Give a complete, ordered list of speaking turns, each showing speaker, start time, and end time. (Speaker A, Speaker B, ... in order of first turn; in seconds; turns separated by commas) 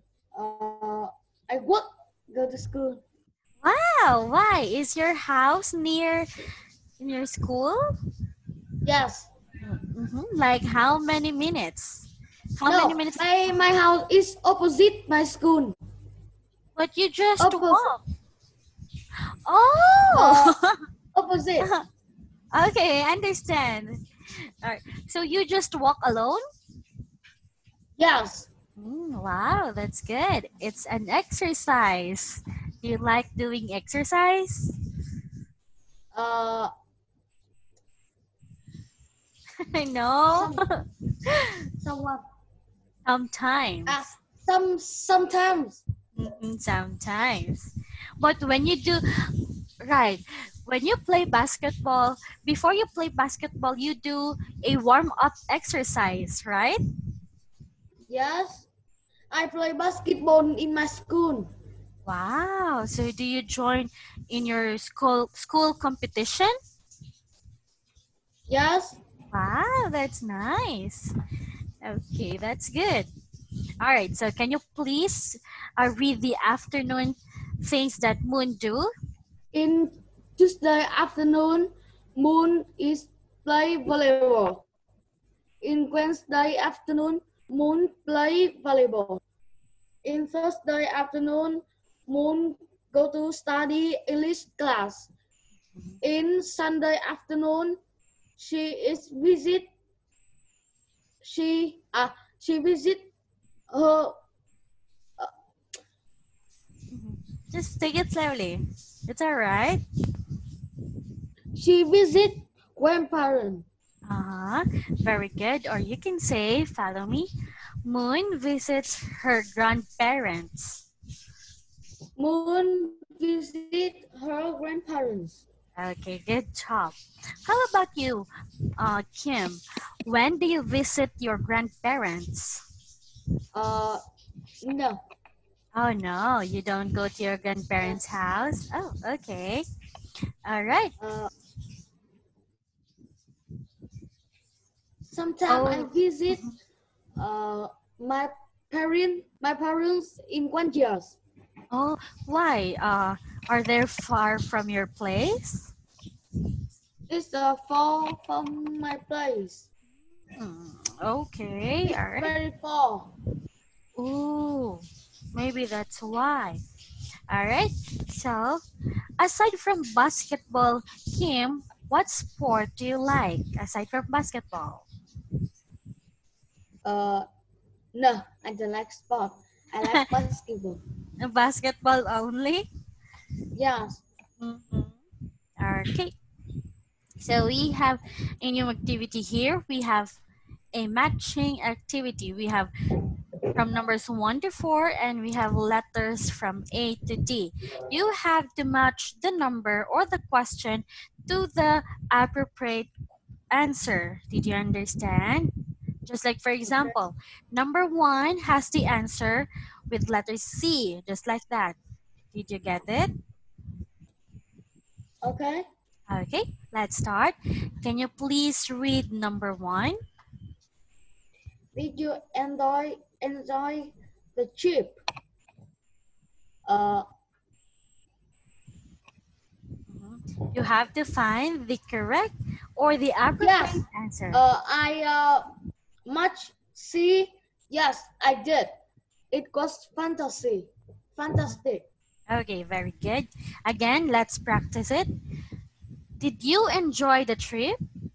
Speaker A: 0.3-3.0, Speaker B: 3.6-6.2, Speaker B: 7.0-7.8, Speaker A: 8.8-9.3, Speaker B: 9.6-13.2, Speaker A: 12.7-15.8, Speaker B: 16.8-18.0, Speaker A: 17.4-17.8, Speaker B: 19.4-20.7, Speaker A: 20.1-20.6, Speaker A: 21.1-21.7, Speaker B: 22.5-24.0, Speaker B: 24.6-26.4, Speaker A: 28.0-28.5, Speaker B: 28.8-34.7, Speaker A: 36.1-36.7, Speaker B: 39.7-41.5, Speaker A: 40.3-40.6, Speaker A: 41.8-42.2, Speaker B: 43.0-44.0, Speaker A: 43.9-45.8, Speaker B: 46.1-56.8, Speaker A: 58.1-58.7, Speaker A: 59.3-61.5, Speaker B: 62.0-66.5, Speaker A: 68.5-69.0, Speaker B: 69.3-71.1, Speaker B: 71.8-73.1, Speaker B: 73.8-78.9, Speaker A: 79.5-84.6, Speaker A: 85.6-89.2, Speaker A: 90.0-95.1, Speaker A: 96.0-97.8, Speaker A: 98.4-99.7, Speaker A: 101.2-103.1, Speaker A: 103.7-104.1, Speaker B: 106.9-109.8, Speaker A: 111.5-113.6, Speaker B: 114.1-117.3, Speaker B: 117.8-120.8, Speaker A: 122.2-125.4, Speaker B: 125.8-126.9, Speaker B: 127.5-128.3, Speaker B: 128.8-132.6, Speaker A: 133.5-134.0, Speaker A: 134.6-135.0, Speaker B: 135.7-139.6, Speaker B: 140.4-140.9, Speaker A: 141.0-141.3, Speaker A: 145.1-146.4, Speaker B: 145.5-146.5, Speaker A: 147.2-151.2, Speaker B: 151.7-155.7, Speaker A: 157.1-159.7, Speaker B: 160.4-162.3, Speaker A: 161.9-163.1, Speaker B: 164.0-164.8, Speaker B: 165.3-166.6, Speaker B: 167.3-168.6, Speaker B: 169.2-174.8, Speaker A: 176.8-177.2, Speaker A: 177.9-180.8, Speaker B: 181.2-182.7, Speaker A: 183.5-184.0, Speaker B: 184.4-184.9, Speaker B: 185.6-186.1, Speaker B: 187.2-190.2, Speaker B: 190.7-192.7, Speaker B: 193.5-202.9, Speaker B: 203.5-205.5, Speaker B: 206.0-211.8, Speaker A: 206.7-206.9, Speaker B: 212.3-213.1, Speaker A: 215.2-215.6, Speaker B: 216.1-219.9, Speaker A: 221.7-224.9, Speaker A: 226.7-227.0, Speaker B: 229.9-234.4, Speaker A: 233.4-235.4, Speaker A: 236.1-238.7, Speaker A: 239.3-241.8, Speaker B: 242.3-245.1, Speaker B: 246.2-247.8